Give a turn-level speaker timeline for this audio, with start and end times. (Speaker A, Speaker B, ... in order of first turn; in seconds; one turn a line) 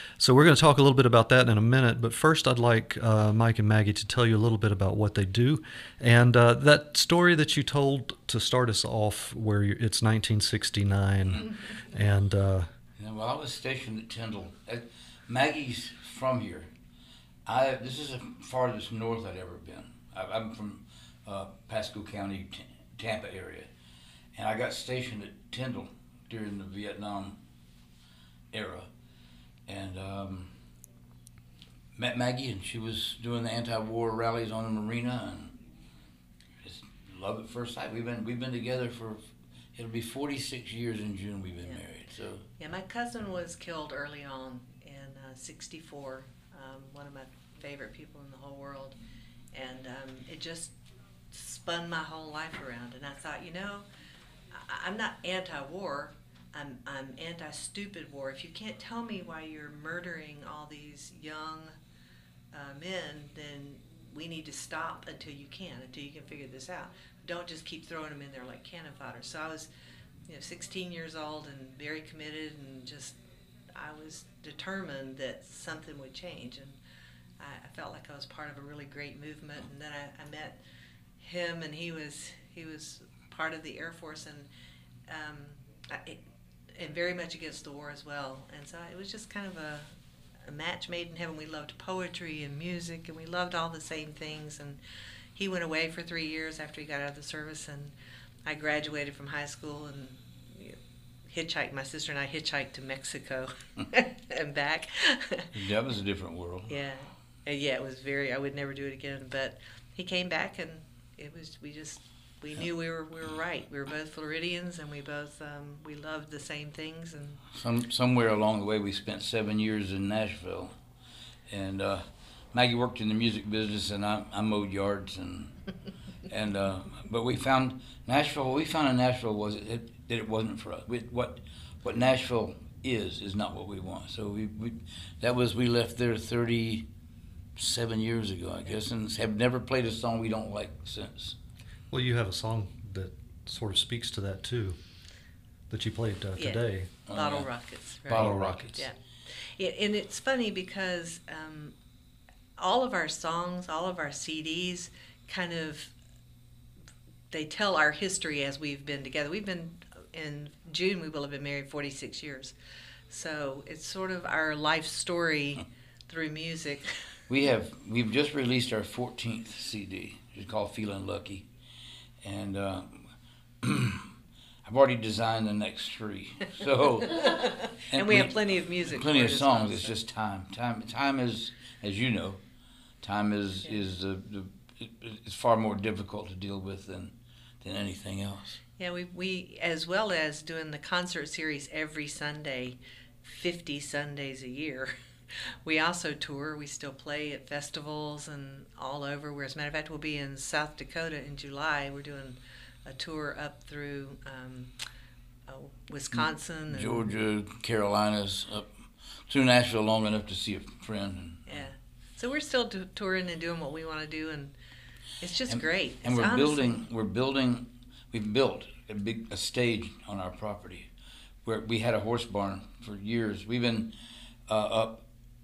Speaker A: 0.2-12.7
Speaker B: 13.0-16.7
Speaker B: 17.4-23.7
Speaker B: 24.4-27.4
Speaker B: 28.5-28.9
Speaker B: 29.7-30.5
Speaker B: 31.9-35.5
Speaker B: 36.6-39.2
Speaker B: 39.7-42.4
Speaker C: 42.6-48.9
Speaker C: 49.5-50.7
Speaker C: 51.3-53.9
Speaker C: 54.5-61.7
Speaker C: 62.5-69.7
Speaker C: 70.3-73.2
Speaker C: 73.7-76.8
Speaker C: 77.4-80.6
Speaker C: 81.2-84.5
Speaker C: 85.1-86.2
Speaker C: 86.8-89.9
Speaker C: 90.4-94.8
Speaker C: 95.3-97.9
Speaker C: 98.5-100.8
Speaker C: 101.3-105.5
Speaker B: 105.5-106.7
Speaker C: 106.7-117.4
Speaker B: 117.5-120.7
Speaker B: 121.5-125.5
Speaker B: 126.3-136.8
Speaker B: 137.6-141.3
Speaker A: 141.9-144.8
Speaker A: 145.7-146.9
Speaker C: 146.3-151.7
Speaker B: 147.1-147.5
Speaker B: 148.0-148.9
Speaker A: 148.1-148.7
Speaker C: 152.6-155.9
Speaker C: 157.3-162.5
Speaker C: 163.1-166.9
Speaker B: 167.3-171.4
Speaker B: 172.2-173.1
Speaker B: 173.6-174.1
Speaker B: 174.6-177.4
Speaker C: 177.1-179.9
Speaker B: 177.9-182.4
Speaker B: 183.0-188.6
Speaker C: 188.8-194.9
Speaker C: 195.6-204.7
Speaker C: 205.5-207.1
Speaker B: 206.7-208.7
Speaker B: 209.3-211.6
Speaker C: 211.5-214.5
Speaker C: 215.2-216.8
Speaker B: 215.5-220.9
Speaker B: 221.4-223.9
Speaker B: 224.5-225.0